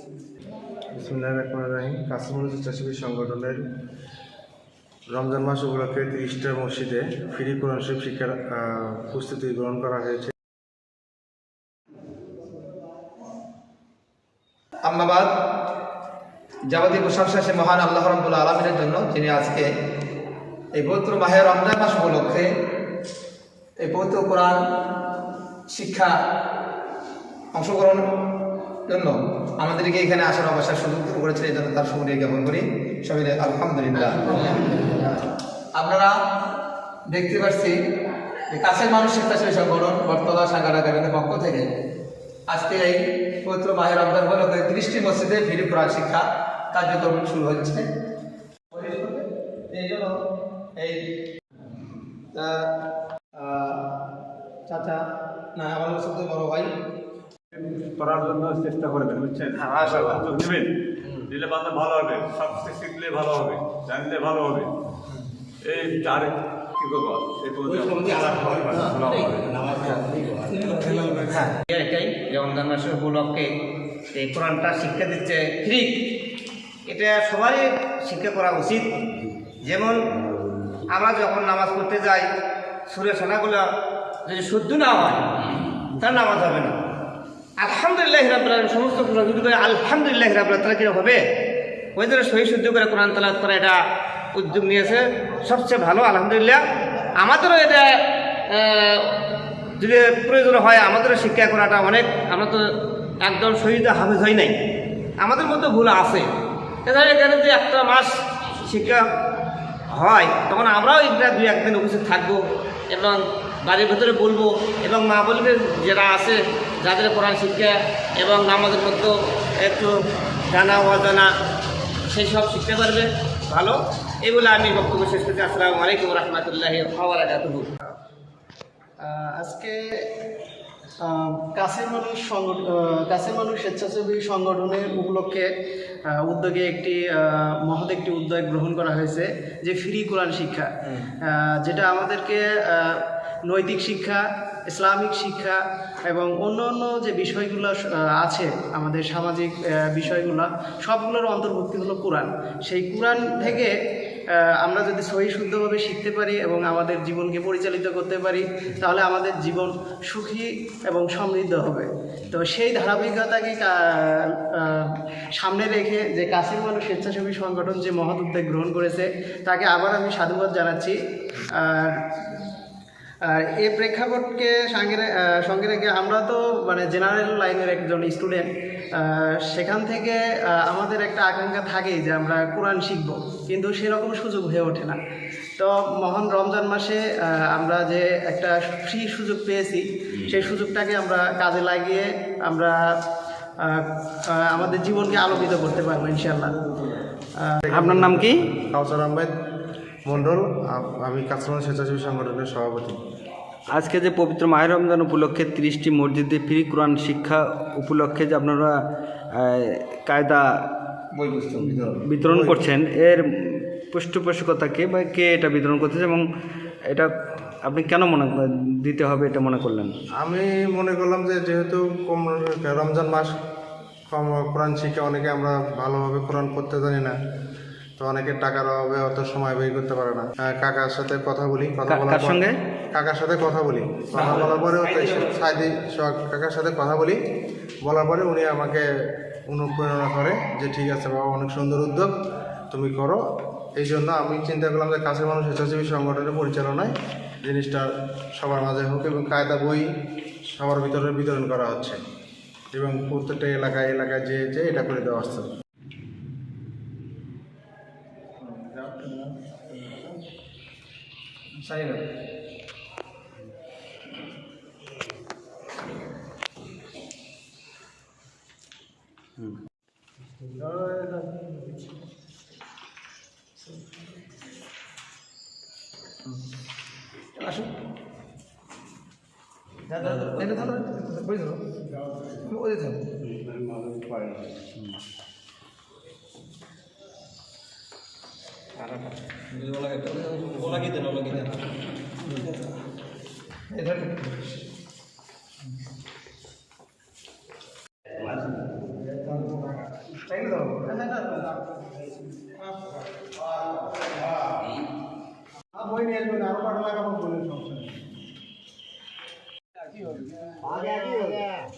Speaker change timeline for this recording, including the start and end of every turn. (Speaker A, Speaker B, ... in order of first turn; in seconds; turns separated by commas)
Speaker A: 0.9-3.6, Speaker A: 5.1-10.3, Speaker B: 14.8-15.3, Speaker B: 16.7-19.6, Speaker B: 20.7-22.4, Speaker B: 23.8-24.6, Speaker B: 25.7-26.1, Speaker B: 27.5-28.0, Speaker B: 28.9-35.0, Speaker B: 35.8-36.1, Speaker B: 37.1-37.7, Speaker B: 38.5-41.7, Speaker B: 42.5-47.9, Speaker B: 48.7-50.2, Speaker B: 52.3-52.6, Speaker B: 53.4-53.8, Speaker B: 54.7-55.0, Speaker B: 55.5-56.7, Speaker C: 57.5-60.7, Speaker D: 59.6-60.1, Speaker C: 61.3-64.7, Speaker C: 65.6-70.0, Speaker B: 70.8-71.3, Speaker D: 71.7-73.5, Speaker D: 74.1-76.0, Speaker D: 76.9-78.9, Speaker D: 79.6-80.0, Speaker D: 80.9-82.3, Speaker D: 82.9-83.7, Speaker D: 84.2-86.8, Speaker D: 87.6-91.2, Speaker D: 92.0-93.8, Speaker D: 94.3-96.6, Speaker D: 97.1-99.1, Speaker D: 99.8-102.6, Speaker D: 103.2-104.5, Speaker D: 105.2-106.3, Speaker D: 106.9-108.1, Speaker D: 108.6-109.0, Speaker D: 109.9-119.9, Speaker D: 120.5-121.3, Speaker D: 122.1-127.7, Speaker E: 129.0-129.8, Speaker E: 131.0-135.5, Speaker E: 136.1-140.7, Speaker E: 141.2-153.7, Speaker E: 154.4-171.9, Speaker E: 173.2-185.0, Speaker E: 185.6-192.8, Speaker E: 193.6-196.6, Speaker A: 197.7-199.3, Speaker F: 197.7-198.4, Speaker A: 200.0-203.0, Speaker F: 203.7-208.8, Speaker F: 209.3-210.6, Speaker B: 211.1-212.5, Speaker F: 211.6-216.2, Speaker F: 216.9-219.9, Speaker A: 220.2-223.3, Speaker A: 224.1-227.2, Speaker A: 228.0-237.2, Speaker F: 231.9-232.5, Speaker D: 234.1-235.6, Speaker A: 237.8-238.8, Speaker A: 239.5-242.1, Speaker A: 242.7-243.2, Speaker A: 243.8-249.9, Speaker A: 250.5-252.0, Speaker A: 252.7-255.5, Speaker B: 258.5-259.3, Speaker B: 261.6-262.0, Speaker B: 277.4-277.7, Speaker B: 280.0-281.6, Speaker B: 282.4-283.0, Speaker F: 290.6-291.0, Speaker D: 290.8-291.3, Speaker B: 293.7-294.4, Speaker A: 300.4-301.0, Speaker A: 305.8-307.9, Speaker F: 310.8-311.5